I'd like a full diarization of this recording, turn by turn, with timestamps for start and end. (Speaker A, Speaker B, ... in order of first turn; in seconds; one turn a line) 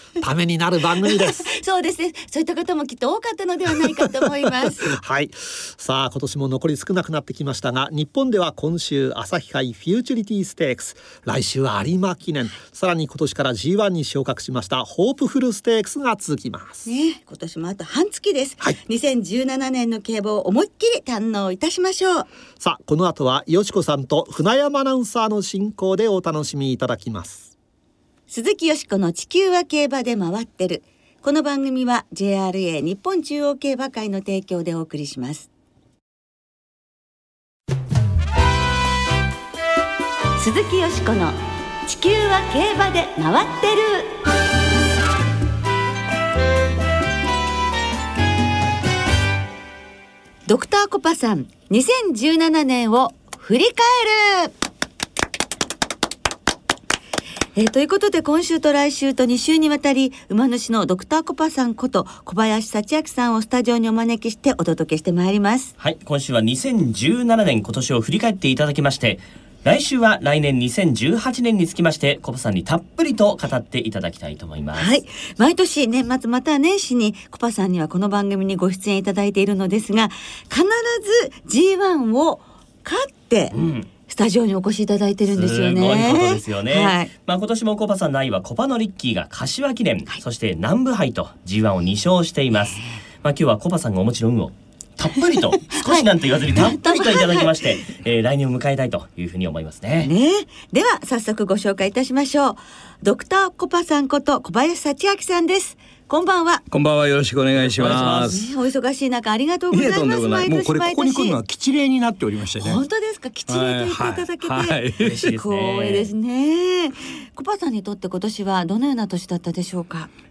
Speaker A: 0.2-1.5
Speaker B: 1.0-5.0
Speaker A: 4.8-16.9
Speaker B: 16.8-22.3
Speaker A: 22.6-27.5
Speaker B: 28.3-35.5
Speaker B: 40.4-44.1
Speaker B: 50.5-54.5
Speaker B: 57.5-65.7
Speaker C: 65.8-75.0
Speaker B: 74.8-83.5
Speaker C: 83.5-83.9
Speaker B: 84.1-87.1
Speaker C: 85.3-100.1
Speaker B: 95.7-97.5
Speaker B: 100.0-106.6
Speaker D: 106.7-108.5
Speaker C: 107.5-108.4
Speaker B: 107.8-111.4
Speaker D: 109.7-112.8
Speaker B: 112.6-120.1
Speaker D: 113.5-115.2
Speaker C: 115.0-116.1